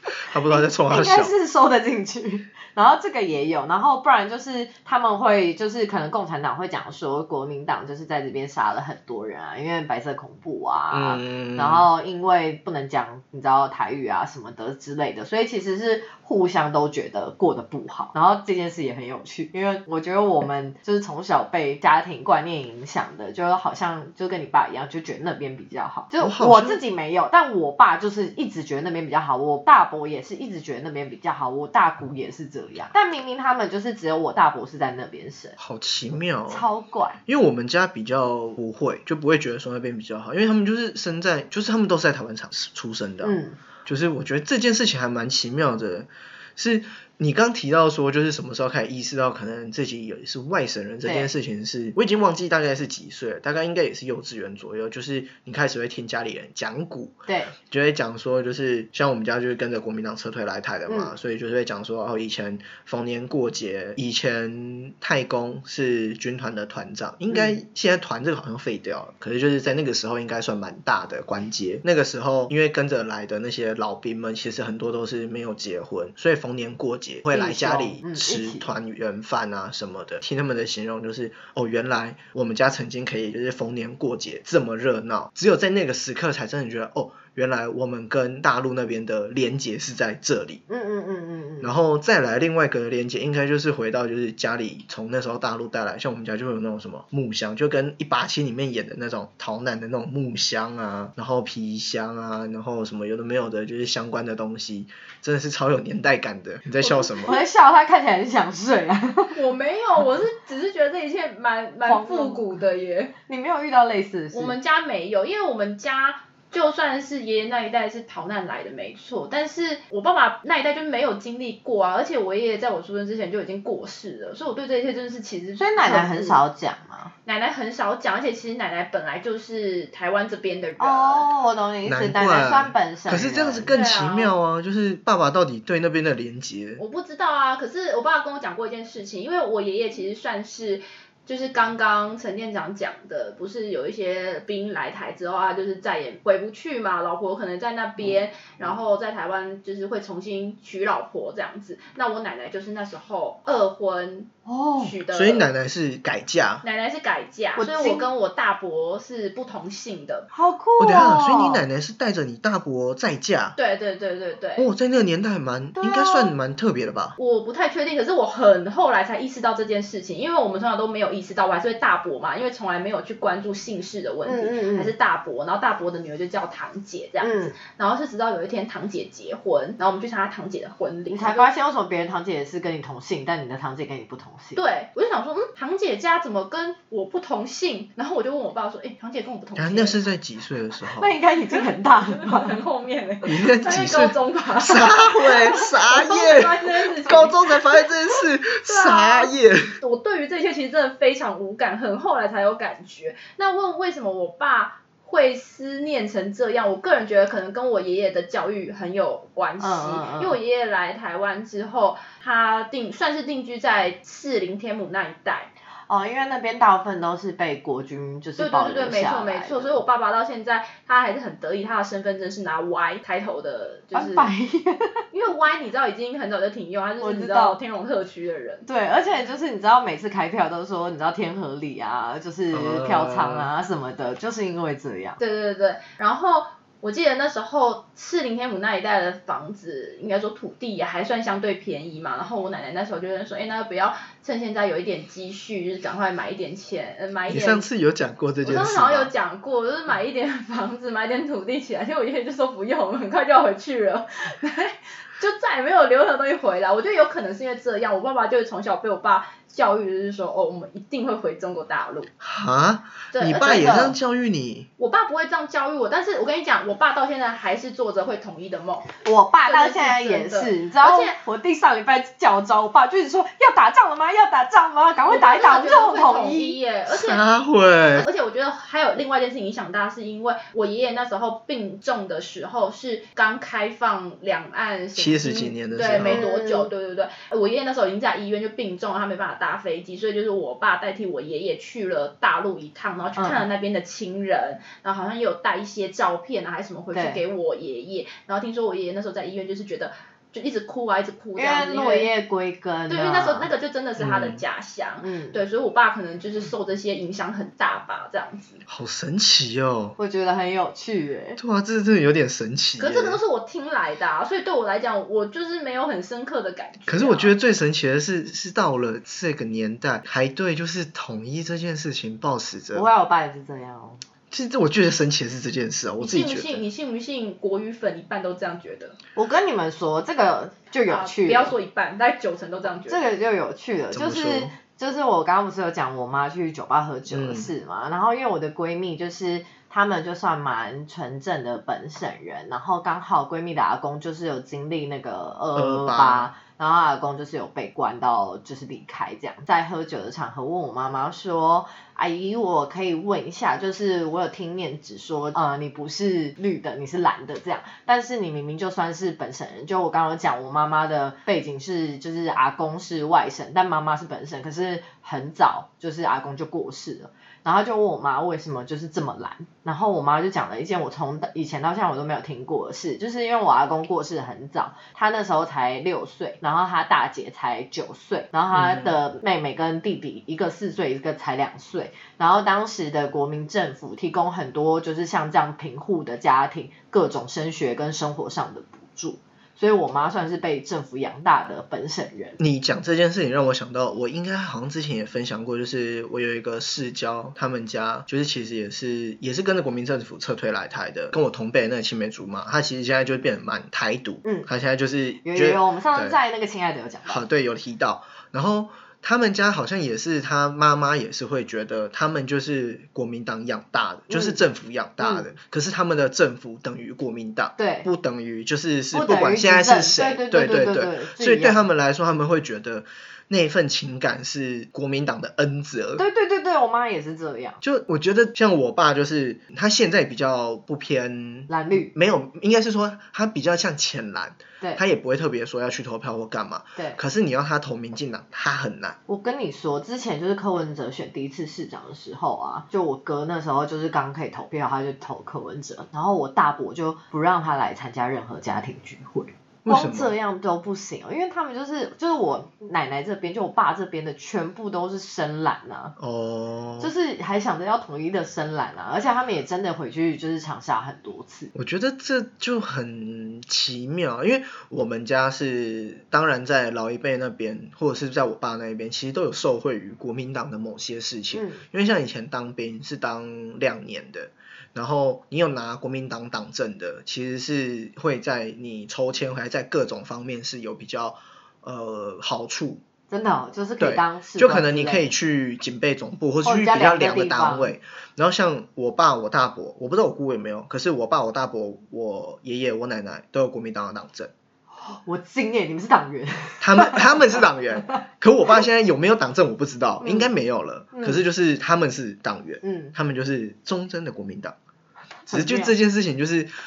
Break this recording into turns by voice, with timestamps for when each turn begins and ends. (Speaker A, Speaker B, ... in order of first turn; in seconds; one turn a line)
Speaker A: 0.2-1.3
Speaker B: 0.5-35.6
Speaker A: 10.9-11.9
Speaker A: 26.2-26.8
Speaker A: 35.6-36.6
Speaker B: 36.5-37.2
Speaker A: 37.2-90.6
Speaker B: 43.2-43.6
Speaker B: 51.0-51.3
Speaker B: 57.3-57.5
Speaker B: 60.9-61.1
Speaker B: 67.3-67.6
Speaker B: 77.3-78.7
Speaker B: 90.7-91.7
Speaker A: 91.6-107.4
Speaker C: 106.8-107.3
Speaker B: 107.2-109.3
Speaker C: 109.3-113.1
Speaker B: 111.8-112.6
Speaker B: 113.3-114.5
Speaker C: 114.3-126.4
Speaker B: 125.6-127.1
Speaker C: 127.2-131.2
Speaker B: 130.8-133.7
Speaker A: 131.8-136.8
Speaker C: 133.7-134.3
Speaker C: 136.8-155.5
Speaker B: 154.4-154.9
Speaker A: 155.1-156.6
Speaker C: 156.6-160.3
Speaker B: 157.6-158.1
Speaker B: 160.3-161.6
Speaker A: 160.8-163.6
Speaker C: 163.6-164.7
Speaker A: 164.6-167.1
Speaker B: 165.8-166.3
Speaker C: 167.2-181.5
Speaker B: 174.2-174.9
Speaker B: 177.2-177.5
Speaker B: 181.1-184.6
Speaker C: 184.6-190.0
Speaker A: 189.6-191.1
Speaker B: 191.0-192.6
Speaker C: 192.2-197.8
Speaker A: 193.2-199.8
Speaker C: 198.6-215.5
Speaker B: 209.6-210.4
Speaker B: 215.9-219.8
Speaker C: 218.4-224.3
Speaker B: 223.9-225.0
Speaker C: 225.1-228.7
Speaker B: 227.0-227.6
Speaker B: 228.6-235.2
Speaker A: 232.5-233.5
Speaker C: 235.2-247.7
Speaker A: 247.3-249.1
Speaker C: 248.4-262.1
Speaker A: 262.2-264.7
Speaker C: 263.1-263.8
Speaker B: 263.5-263.9
Speaker C: 264.8-268.9
Speaker B: 269.0-276.6
Speaker C: 269.4-271.1
Speaker C: 275.1-277.2
Speaker A: 276.9-278.1
Speaker C: 277.9-302.1
Speaker A: 284.9-286.2
Speaker B: 285.9-286.7
Speaker B: 293.2-293.4
Speaker B: 296.9-297.2
Speaker B: 301.4-303.5
Speaker C: 302.9-308.6
Speaker A: 304.0-304.4
Speaker B: 305.0-305.4
Speaker A: 308.7-309.9
Speaker B: 310.0-311.4
Speaker A: 311.4-313.2
Speaker C: 312.8-317.4
Speaker A: 316.9-322.9
Speaker B: 322.7-324.0
Speaker A: 324.3-326.6
Speaker C: 326.0-328.9
Speaker B: 329.1-331.5
Speaker C: 330.9-333.1
Speaker B: 332.8-392.4
Speaker A: 333.9-334.5
Speaker A: 337.1-337.5
Speaker A: 345.6-346.3
Speaker A: 378.5-378.9
Speaker A: 392.4-406.2
Speaker B: 404.2-404.5
Speaker B: 405.2-407.2
Speaker A: 407.1-426.0
Speaker B: 414.1-414.4
Speaker B: 415.0-415.3
Speaker B: 417.6-417.9
Speaker B: 418.9-421.6
Speaker B: 426.0-427.6
Speaker A: 427.6-439.0
Speaker B: 431.5-431.9
Speaker B: 439.1-455.9
Speaker A: 449.6-450.1
Speaker A: 456.0-456.9
Speaker B: 456.8-461.5
Speaker A: 461.5-482.8
Speaker B: 471.3-471.6
Speaker B: 483.1-485.1
Speaker A: 483.8-494.3
Speaker B: 486.4-487.7
Speaker B: 494.8-497.4
Speaker A: 496.6-504.6
Speaker B: 500.0-500.3
Speaker B: 500.9-501.2
Speaker B: 502.6-502.9
Speaker B: 505.2-505.7
Speaker A: 505.3-506.5